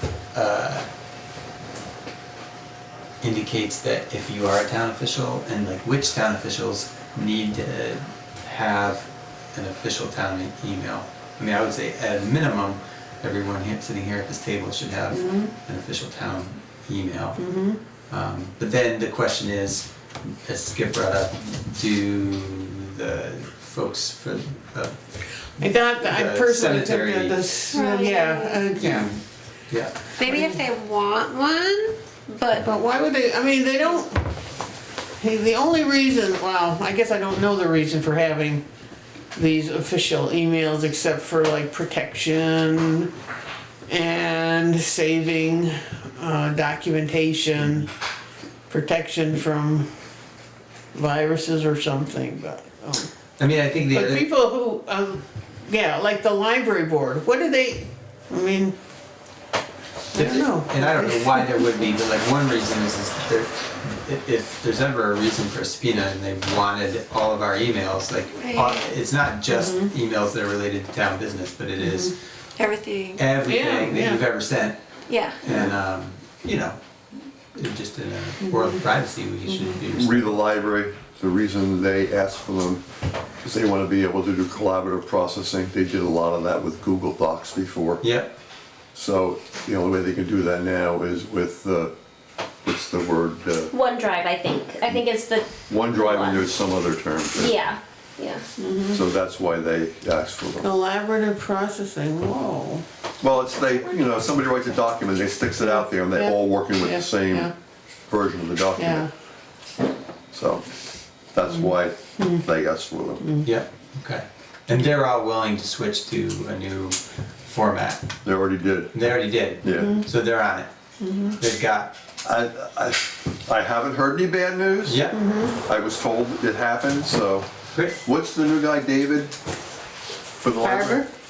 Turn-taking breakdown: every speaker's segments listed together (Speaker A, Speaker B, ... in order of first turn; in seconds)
Speaker A: 0.3-0.9, 3.2-17.4, 18.1-19.9, 20.4-25.0, 25.6-27.4, 28.8-30.0, 53.4-54.3, 60.1-72.2, 73.2-74.8, 75.4-76.8, 77.5-80.5, 88.0-88.3, 113.4-118.1, 118.9-120.7, 121.4-122.0, 124.8-125.2
Speaker B: 15.1-15.5, 17.4-17.8, 25.6-29.1, 30.3-30.6, 32.6-34.2, 35.2-38.6, 39.3-43.1, 43.9-47.9, 48.7-49.9, 50.9-53.1, 53.9-58.8, 60.1-61.7, 69.5-69.9, 71.8-72.1, 73.4-74.2, 78.5-78.8, 79.5-79.7, 98.6-99.0, 100.6-102.8, 105.6-107.5, 108.8-109.1, 112.2-112.4, 113.2-113.5, 119.8-120.1, 121.0-121.4, 125.1-125.6, 130.6-131.1
Speaker C: 27.7-28.7, 30.2-32.6, 68.4-68.8, 72.6-73.2, 75.1-75.4
Speaker D: 79.9-82.8, 83.4-88.0, 88.9-91.9, 92.6-93.8, 95.7-97.7, 98.9-100.7, 103.2-107.5, 108.1-109.1, 110.3-110.7, 111.3-113.3, 118.2-119.0, 119.6-119.9, 122.2-125.0, 125.6-129.3, 130.4-131.1
Speaker E: 93.7-96.4, 97.3-98.4